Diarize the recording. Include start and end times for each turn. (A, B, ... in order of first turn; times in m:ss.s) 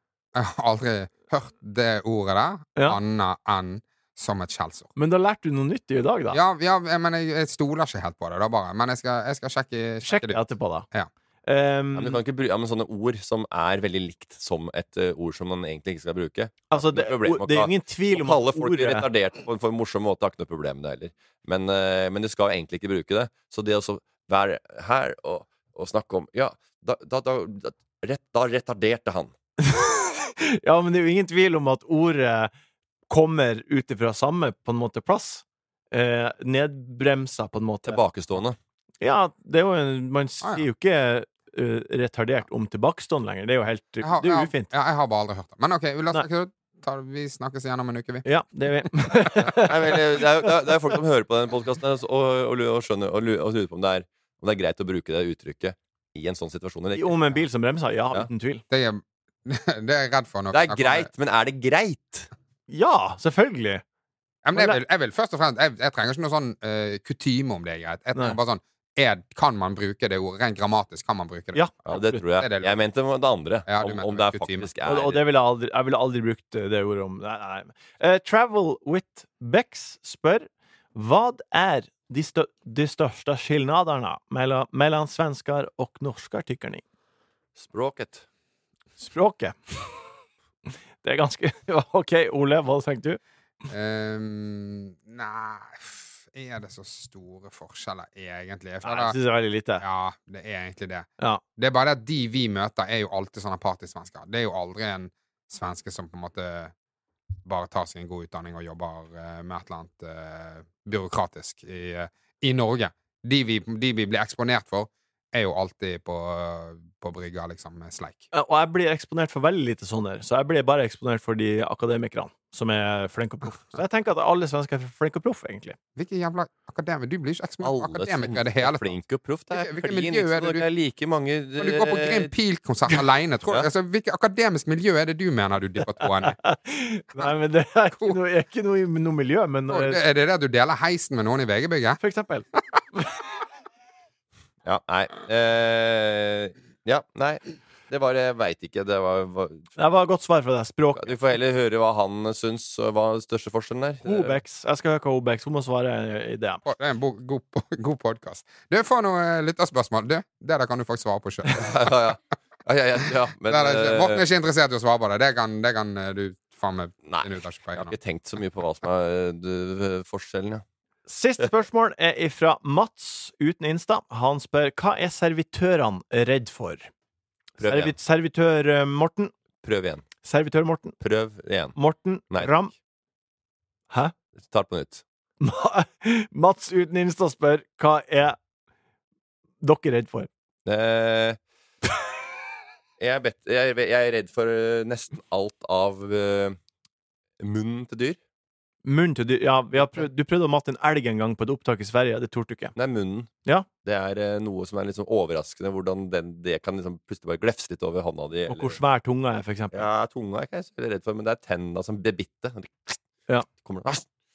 0:00.4-0:04.9 A
0:05.0-0:06.4 B
0:06.3-0:10.4 A
0:10.0-0:10.9 B
0:11.5-0:12.2 B
0:12.0-0:29.3 C
0:16.7-0:19.1 B
0:29.6-0:32.5 B
0:33.1-0:38.0 B
0:37.8-0:38.6 C
0:39.0-0:44.7 B
0:44.0-0:48.3 A
0:48.2-0:50.5 B
0:49.2-0:49.5 A
0:49.6-0:57.4 C
0:57.0-0:58.6 B
0:58.7-1:01.1 A
1:00.5-1:02.3 C
1:02.7-1:03.8 B
1:04.4-1:11.6 A
1:11.5-1:12.2 B
1:11.9-1:15.2 C
1:12.4-1:12.8 A
1:13.7-1:14.7 A
1:14.8-1:26.8 B
1:27.6-1:28.2 C
1:29.0-1:30.0 B
1:31.0-1:33.2 B
1:33.7-1:39.2 A
1:38.8-1:39.8 B
1:39.8-1:46.7 A
1:47.4-1:58.3 A
1:58.3-2:05.8 B
2:06.0-2:09.0 A
2:07.6-2:12.3 C
2:09.5-2:10.7 A
2:11.6-2:16.4 A
2:16.0-2:20.0 B
2:19.7-2:22.0 A
2:22.0-2:23.1 B
2:24.6-2:29.7 C
2:29.8-2:31.1 B
2:31.0-2:34.4 C
2:34.0-2:36.6 B
2:36.7-2:42.0 A
2:41.5-2:44.2 C
2:43.5-2:48.0 A
2:47.0-2:50.6 C
2:51.1-2:56.9 B
2:57.6-2:57.9 C
2:57.6-2:59.3 B
2:59.6-3:00.1 C
3:00.2-3:01.0 B
3:01.0-3:01.8 C
3:01.8-3:02.7 B
3:04.4-3:05.0 C
3:05.4-3:08.4 B
3:09.6-3:10.3 B
3:10.7-3:11.4 C
3:13.0-3:16.6 C
3:17.4-3:18.2 C
3:18.8-3:22.8 B
3:22.8-3:23.3 C
3:23.8-3:28.8 C
3:28.5-3:29.9 B
3:29.7-3:33.0 C
3:33.6-3:34.1 C